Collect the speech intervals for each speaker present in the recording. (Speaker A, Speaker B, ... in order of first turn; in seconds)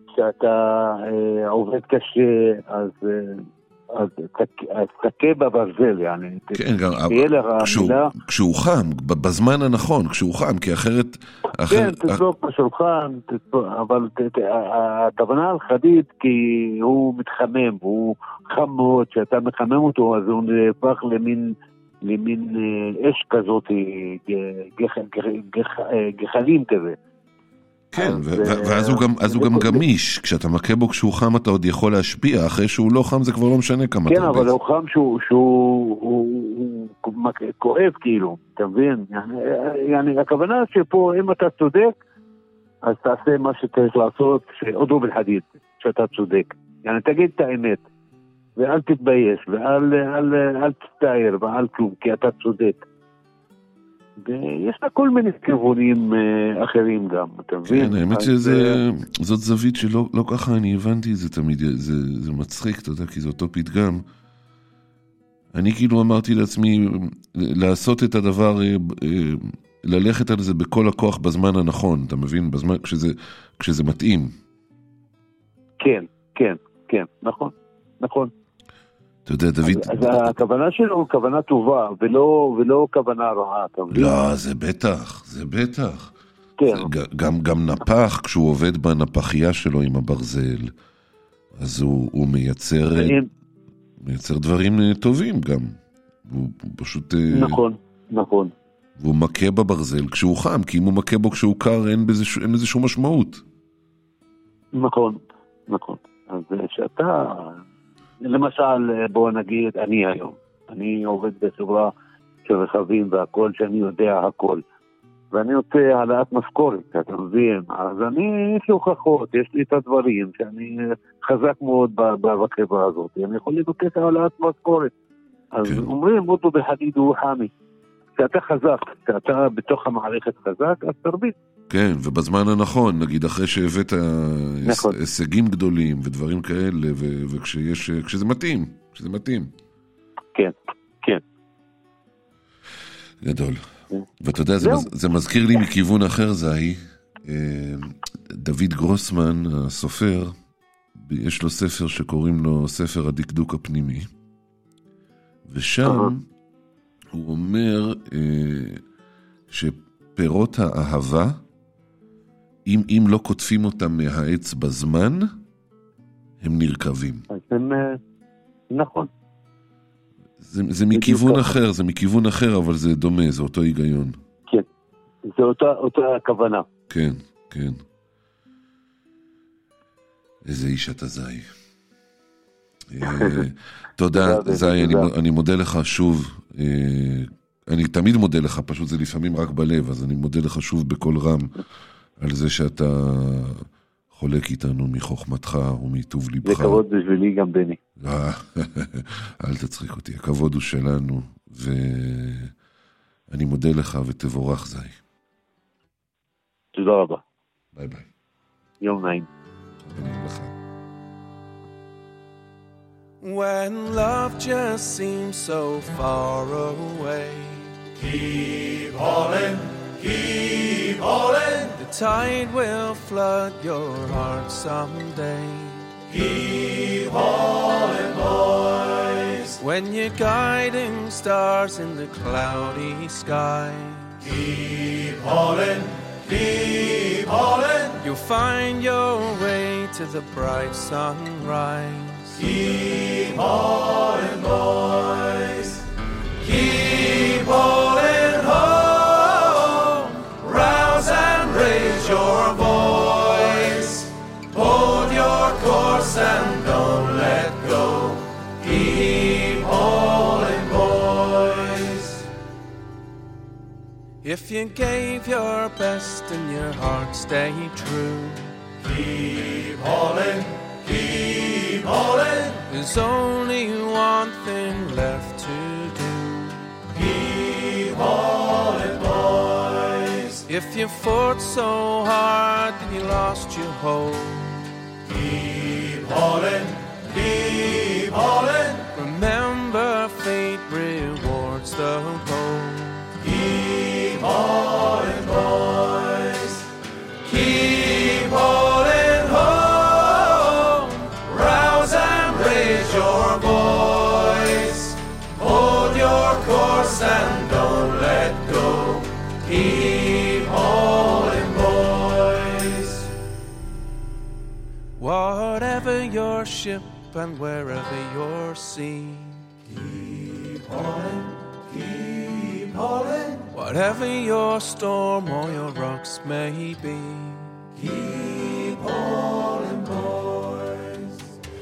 Speaker A: 0.2-3.4, 3.9-6.6, 7.1-8.1, 11.7-21.5, 22.1-27.0, 28.0-29.8, 34.1-42.0, 42.9-47.8, 48.6-52.8, 54.2-58.8, 75.8-78.3, 79.7-84.1, 86.6-86.9, 93.0-93.2, 97.3-98.5, 104.8-105.2, 105.7-107.6, 108.2-111.9, 112.5-114.6, 115.3-120.8, 121.3-124.9, 125.5-127.5, 128.2-131.3, 134.7-134.9, 140.3-141.2, 144.6-144.9, 155.8-156.1, 167.3-168.0, 168.7-169.1, 170.9-171.5, 175.3-176.7, 183.0-183.3, 184.2-185.1, 196.4-197.8, 206.8-207.2, 208.8-209.3
Speaker B: 6.6-12.2, 27.9-34.5, 57.7-64.0, 65.5-74.3, 79.3-80.3, 83.9-86.1, 86.7-90.7, 91.6-93.2, 94.0-97.6, 99.0-103.4, 131.7-139.5, 143.2-143.6, 144.2-150.3, 151.0-154.1, 155.5-156.2, 157.1-158.8, 159.5-161.4, 162.7-165.3, 166.4-167.3, 170.4-174.2, 176.9-177.8, 180.5-181.5, 182.9-191.6, 192.2-196.8, 198.0-202.5, 203.3-205.0, 207.8-208.1, 209.9-210.5
Speaker C: 213.2-217.8, 221.8-225.9, 229.6-234.2, 238.0-242.4, 264.2-268.5, 272.7-276.7, 280.5-284.6, 288.9-293.1, 315.0-319.5, 323.5-327.6
Speaker D: 218.2-221.7, 226.2-229.5, 234.4-238.0, 242.4-245.8, 246.4-262.2, 269.0-272.6, 277.1-280.3, 285.3-288.8, 293.3-296.6, 297.3-313.0, 319.8-323.4, 327.8-331.1